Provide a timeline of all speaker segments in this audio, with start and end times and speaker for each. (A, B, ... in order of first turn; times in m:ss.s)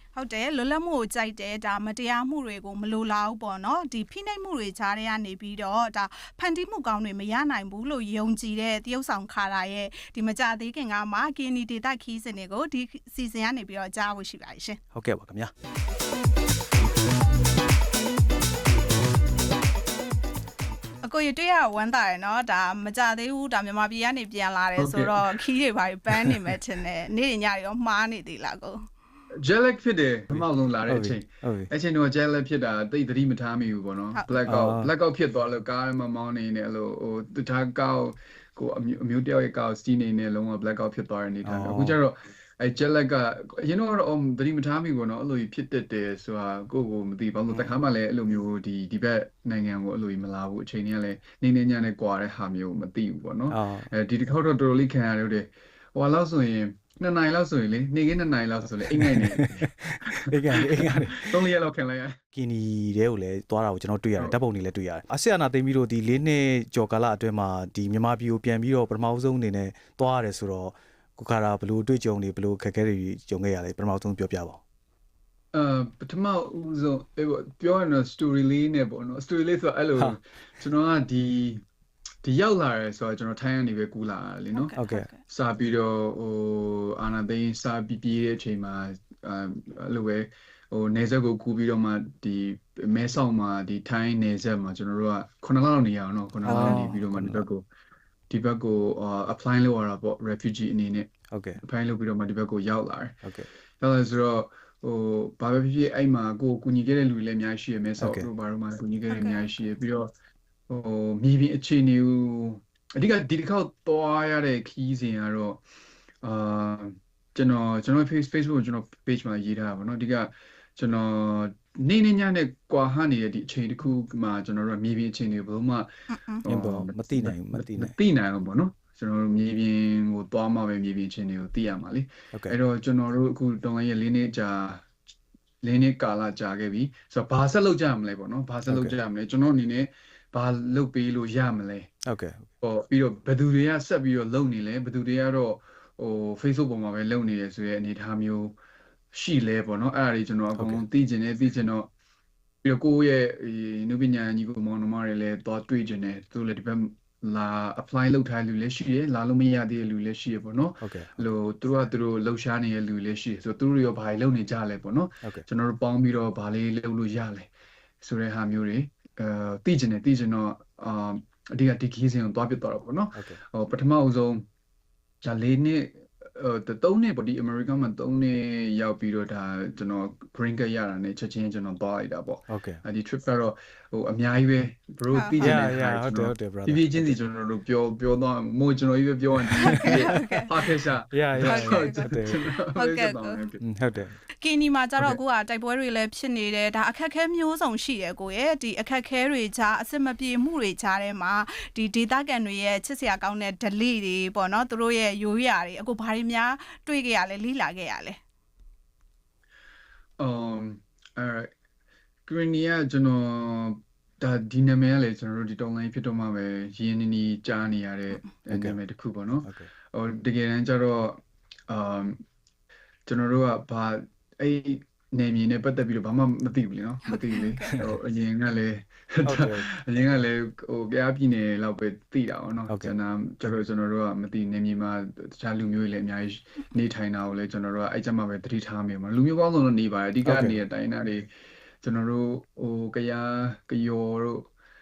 0:00.2-0:14.8 A
0:14.9-0:15.5 B
0:21.0-0:28.8 A
0:24.8-0:25.4 C
0:29.4-1:02.2 C
0:30.3-0:31.7 B
0:34.4-0:34.9 B
0:41.4-0:42.0 B
0:47.5-0:47.8 B
0:53.5-0:53.9 B
0:58.8-1:01.4 B
1:02.3-1:14.6 B
1:15.5-1:21.6 C
1:22.2-1:24.8 C
1:24.5-1:25.2 A
1:24.8-1:25.1 B
1:25.3-1:37.6 C
1:36.4-1:37.4 B
1:38.3-1:43.2 C
1:41.3-1:41.6 B
1:43.8-1:50.1 C
1:48.0-1:48.3 B
1:49.1-1:49.5 A
1:50.7-1:55.6 C
1:56.2-2:05.9 C
2:06.1-2:06.4 A
2:06.4-2:15.0 C
2:06.5-2:07.9 B
2:15.6-2:21.9 C
2:18.7-2:19.0 B
2:22.1-2:22.5 B
2:22.6-2:28.6 C
2:29.1-2:31.9 C
2:30.6-2:30.8 B
2:32.6-2:47.5 C
2:40.8-2:41.2 B
2:48.0-2:54.4 C
2:55.2-3:13.6 C
3:02.5-3:02.8 B
3:05.1-3:05.6 A
3:05.4-3:07.2 B
3:09.6-3:10.5 A
3:09.7-3:10.2 B
3:11.1-3:12.4 B
3:11.4-3:13.5 A
3:13.6-3:14.2 B
3:14.4-3:28.2 A
3:30.2-3:31.5 C
3:32.3-3:42.2 C
3:38.5-3:38.8 B
3:39.5-3:39.7 B
3:43.1-4:01.3 C
3:47.1-3:47.8 A
3:49.2-3:49.7 B
4:00.2-4:00.6 B
4:01.8-4:04.5 C